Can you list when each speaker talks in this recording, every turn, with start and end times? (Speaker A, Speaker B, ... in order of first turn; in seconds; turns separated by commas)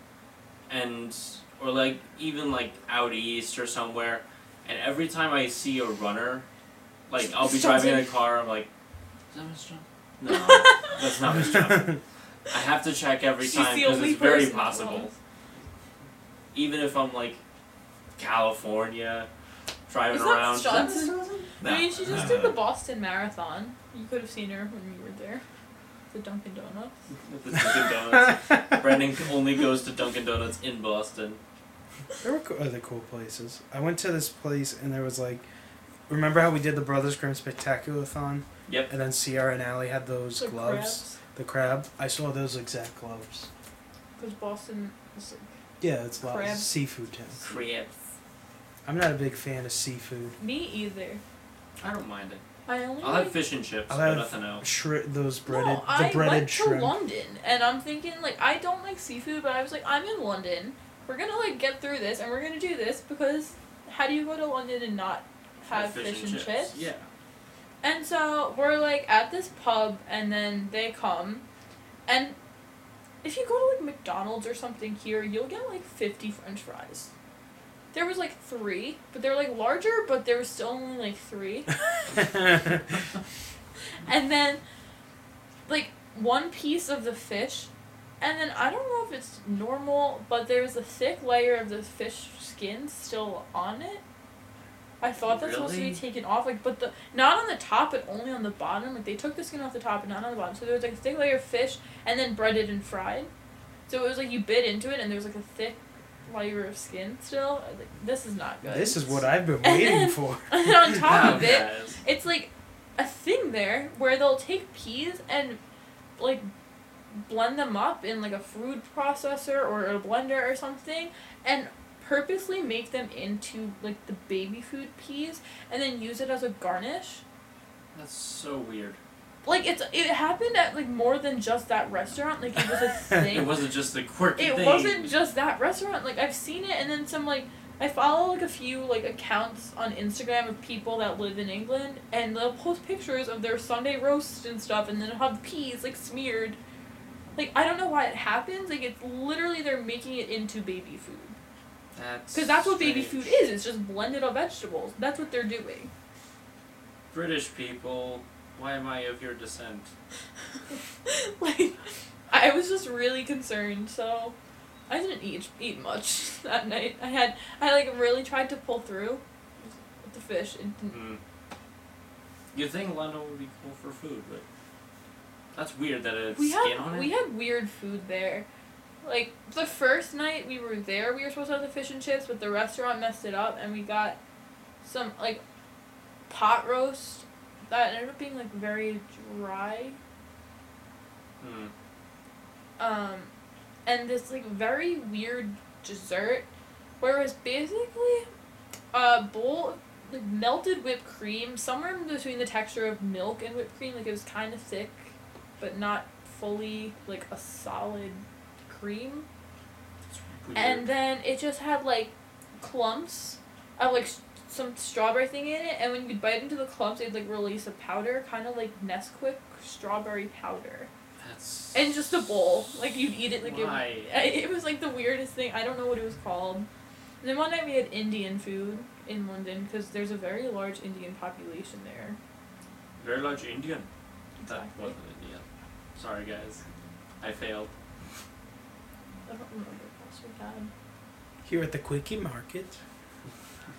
Speaker A: 0.7-6.5, Speaker A: 7.1-8.7, Speaker B: 7.2-8.1, Speaker A: 9.3-15.1, Speaker B: 10.3-11.0, Speaker C: 11.5-12.0, Speaker B: 13.4-15.2, Speaker A: 16.5-17.4, Speaker A: 18.2-19.3, Speaker A: 19.9-22.6, Speaker B: 20.1-25.4, Speaker B: 26.1-26.9, Speaker A: 27.2-31.4, Speaker C: 32.2-35.5, Speaker C: 36.1-43.5, Speaker B: 40.4-41.2, Speaker B: 44.2-45.5, Speaker C: 45.8-47.5, Speaker B: 46.2-46.7, Speaker A: 47.4-47.9, Speaker C: 48.9-50.4, Speaker B: 50.4-51.2, Speaker A: 51.8-52.4, Speaker B: 52.7-53.4, Speaker A: 53.0-54.7, Speaker C: 53.9-57.0, Speaker B: 55.5-66.8, Speaker A: 65.7-67.1, Speaker B: 67.8-71.5, Speaker B: 72.1-72.4, Speaker B: 73.2-77.1, Speaker B: 77.9-82.3, Speaker B: 84.0-84.6, Speaker B: 85.7-94.0, Speaker B: 95.0-103.3, Speaker A: 95.2-96.0, Speaker B: 103.9-115.6, Speaker C: 108.7-111.1, Speaker A: 111.0-112.0, Speaker B: 116.2-116.5, Speaker B: 117.1-127.2, Speaker A: 127.9-129.0, Speaker B: 129.4-133.6, Speaker A: 133.2-135.1, Speaker B: 134.4-146.6, Speaker B: 147.4-151.3, Speaker A: 151.9-153.2, Speaker B: 152.3-155.9, Speaker A: 157.1-159.9, Speaker B: 160.7-161.8, Speaker B: 162.3-164.3, Speaker B: 164.9-171.0, Speaker A: 170.9-171.2, Speaker A: 172.5-174.4, Speaker A: 175.5-177.1, Speaker B: 176.3-178.5, Speaker B: 179.0-184.2, Speaker B: 184.8-185.4, Speaker B: 186.3-190.0, Speaker A: 191.4-191.7, Speaker B: 192.8-193.3, Speaker B: 193.9-196.5, Speaker B: 197.0-198.3, Speaker B: 198.9-209.3, Speaker A: 210.1-210.9, Speaker B: 210.5-220.9, Speaker A: 221.2-221.9, Speaker B: 221.7-226.7, Speaker A: 223.4-224.1, Speaker B: 227.2-232.2, Speaker A: 233.0-233.9, Speaker B: 234.4-234.9, Speaker A: 234.4-235.4, Speaker A: 236.0-236.6, Speaker A: 237.2-237.7, Speaker B: 239.3-240.7, Speaker C: 241.4-242.8